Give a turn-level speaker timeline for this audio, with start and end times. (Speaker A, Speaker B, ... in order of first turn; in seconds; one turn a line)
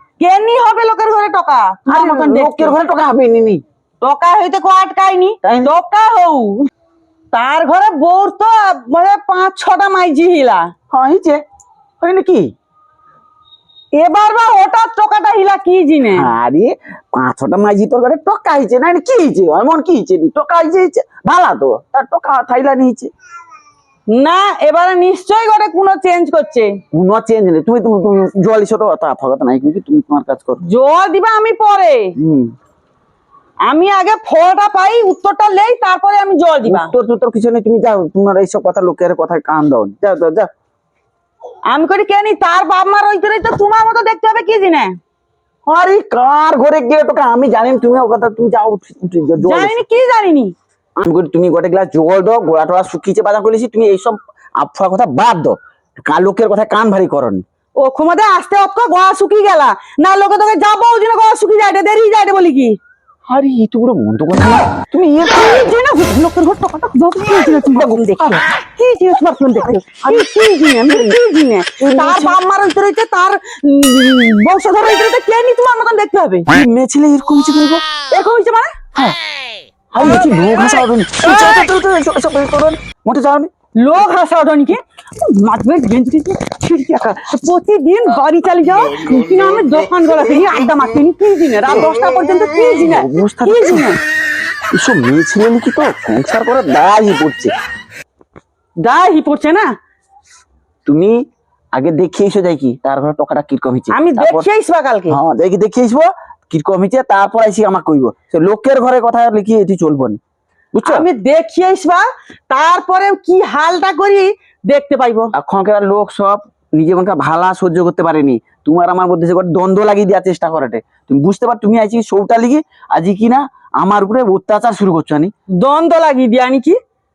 Speaker A: 0.2-2.8
Speaker B: 1.9-3.6
Speaker A: 4.0-6.7
Speaker B: 5.4-5.7
Speaker A: 7.3-10.7
Speaker B: 10.9-11.4
Speaker B: 12.0-12.5
Speaker A: 13.9-16.3
Speaker B: 16.1-23.1
Speaker A: 24.1-26.8
Speaker B: 26.9-30.6
Speaker A: 30.6-32.1
Speaker B: 32.2-32.5
Speaker A: 33.7-36.9
Speaker B: 36.6-40.5
Speaker A: 41.7-45.0
Speaker B: 45.7-49.8
Speaker A: 49.4-50.5
Speaker B: 51.0-57.4
Speaker A: 57.8-62.8
Speaker B: 63.3-65.7
Speaker A: 65.2-76.5
Speaker B: 67.5-68.4
Speaker B: 70.0-70.3
Speaker B: 70.9-71.2
Speaker B: 71.8-72.4
Speaker B: 76.5-77.8
Speaker A: 78.1-78.7
Speaker B: 79.9-83.5
Speaker A: 83.8-94.0
Speaker B: 92.8-93.9
Speaker B: 94.7-97.5
Speaker A: 98.8-99.7
Speaker B: 100.9-101.2
Speaker B: 101.7-104.5
Speaker A: 103.9-105.2
Speaker B: 105.1-110.2
Speaker B: 110.7-111.1
Speaker A: 110.8-115.3
Speaker B: 115.3-125.3
Speaker A: 125.6-126.8